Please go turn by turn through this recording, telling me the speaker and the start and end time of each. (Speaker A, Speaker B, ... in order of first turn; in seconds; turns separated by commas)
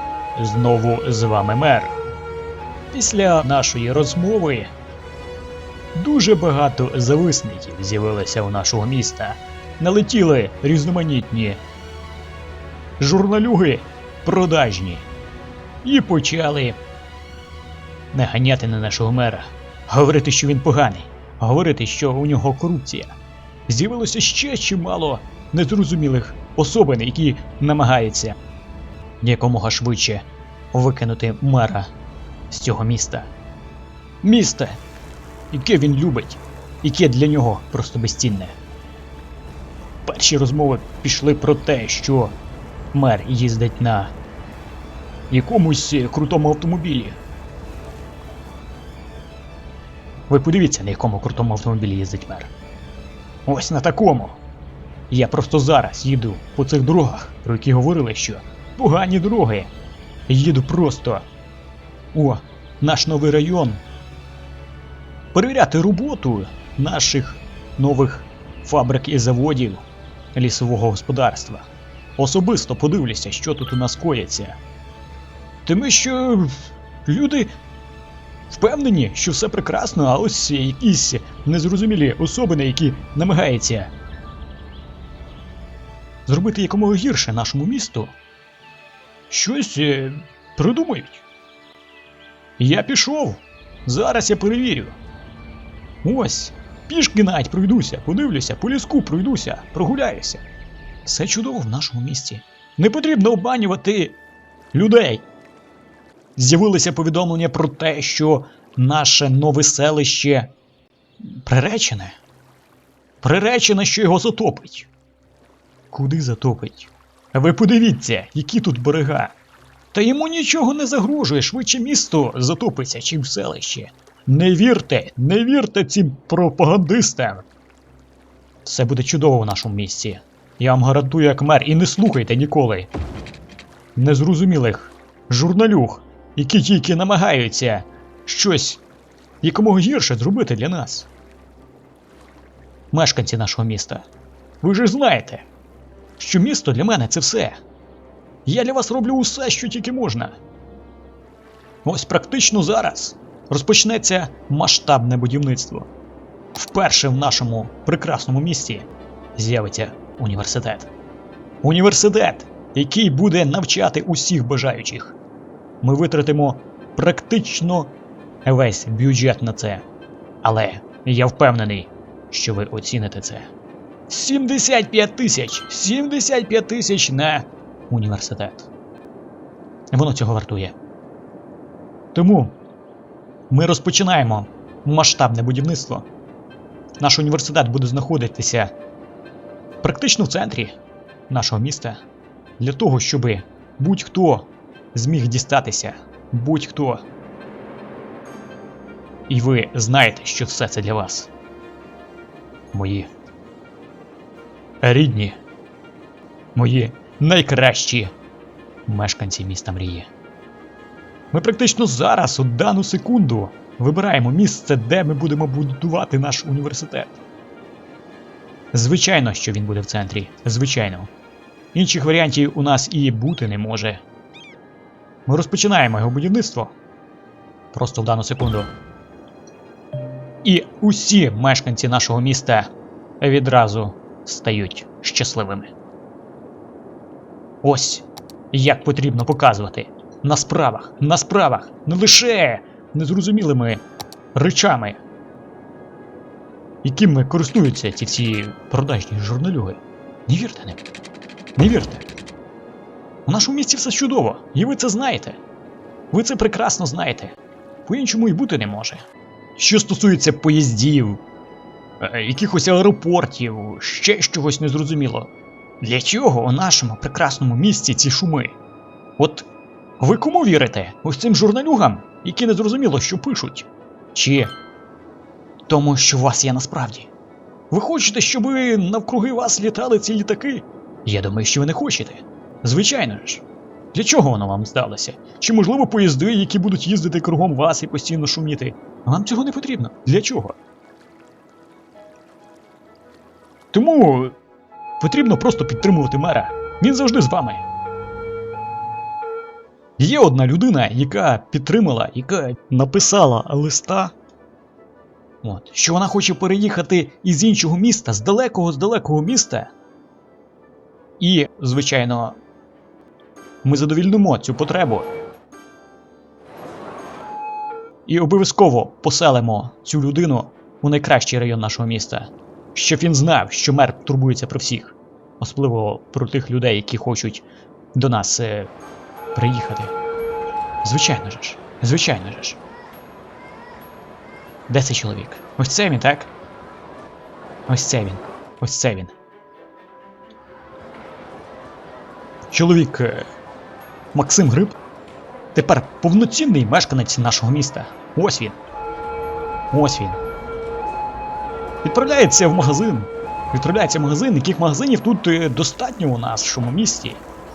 Speaker A: 0.3-1.9, Speaker A: 2.9-4.7, Speaker A: 5.9-11.6, Speaker A: 13.0-15.1, Speaker A: 15.8-16.8, Speaker A: 18.1-23.1, Speaker A: 23.7-28.4, Speaker A: 29.2-31.9, Speaker A: 32.5-33.3, Speaker A: 34.2-34.8, Speaker A: 35.5-38.6, Speaker A: 40.0-42.4, Speaker A: 42.9-44.1, Speaker A: 45.3-47.2, Speaker A: 50.3-52.5, Speaker A: 53.5-54.4, Speaker A: 55.1-59.7, Speaker A: 60.3-61.3, Speaker A: 62.1-63.8, Speaker A: 65.3-74.6, Speaker A: 75.7-77.5, Speaker A: 78.5-83.9, Speaker A: 86.2-88.2, Speaker A: 89.3-91.2, Speaker A: 92.6-95.0, Speaker A: 96.0-100.4, Speaker A: 101.0-104.2, Speaker A: 104.7-105.2, Speaker A: 106.3-110.5, Speaker A: 111.2-112.2, Speaker A: 113.2-114.9, Speaker A: 115.9-119.3, Speaker A: 119.9-127.5, Speaker A: 128.6-132.9, Speaker A: 133.9-138.8, Speaker A: 139.4-141.1, Speaker A: 142.9-144.1, Speaker A: 144.6-145.5, Speaker A: 146.2-147.6, Speaker A: 148.4-150.4, Speaker A: 151.8-155.9, Speaker A: 156.5-160.9, Speaker A: 161.6-165.2, Speaker A: 165.8-169.8, Speaker A: 170.4-173.5, Speaker A: 174.1-178.7, Speaker A: 179.9-180.8, Speaker A: 182.1-182.6, Speaker A: 183.5-186.1, Speaker A: 187.0-188.7, Speaker A: 189.8-190.8, Speaker A: 191.3-192.0, Speaker A: 192.6-197.0, Speaker A: 199.3-201.3, Speaker A: 202.7-203.1, Speaker A: 204.8-205.4, Speaker A: 206.5-208.1, Speaker A: 208.9-210.1, Speaker A: 211.3-217.2, Speaker A: 218.7-221.1, Speaker A: 221.7-224.0, Speaker A: 225.3-226.7, Speaker A: 227.7-228.7, Speaker A: 230.4-235.7, Speaker A: 237.6-243.8, Speaker A: 244.3-245.0, Speaker A: 246.8-250.8, Speaker A: 251.6-252.1, Speaker A: 253.2-255.4, Speaker A: 256.1-261.2, Speaker A: 262.0-268.6, Speaker A: 269.2-269.5, Speaker A: 270.0-274.6, Speaker A: 275.7-277.1, Speaker A: 277.7-290.6, Speaker A: 293.7-294.4, Speaker A: 295.0-297.6, Speaker A: 300.0-304.1, Speaker A: 305.4-309.7, Speaker A: 311.2-312.4, Speaker A: 313.6-315.1, Speaker A: 318.1-328.7, Speaker A: 329.3-329.9, Speaker A: 330.8-332.6, Speaker A: 334.7-336.3, Speaker A: 337.7-339.1, Speaker A: 342.5-343.3, Speaker A: 344.1-344.8, Speaker A: 345.5-348.6, Speaker A: 349.7-350.2, Speaker A: 351.8-357.2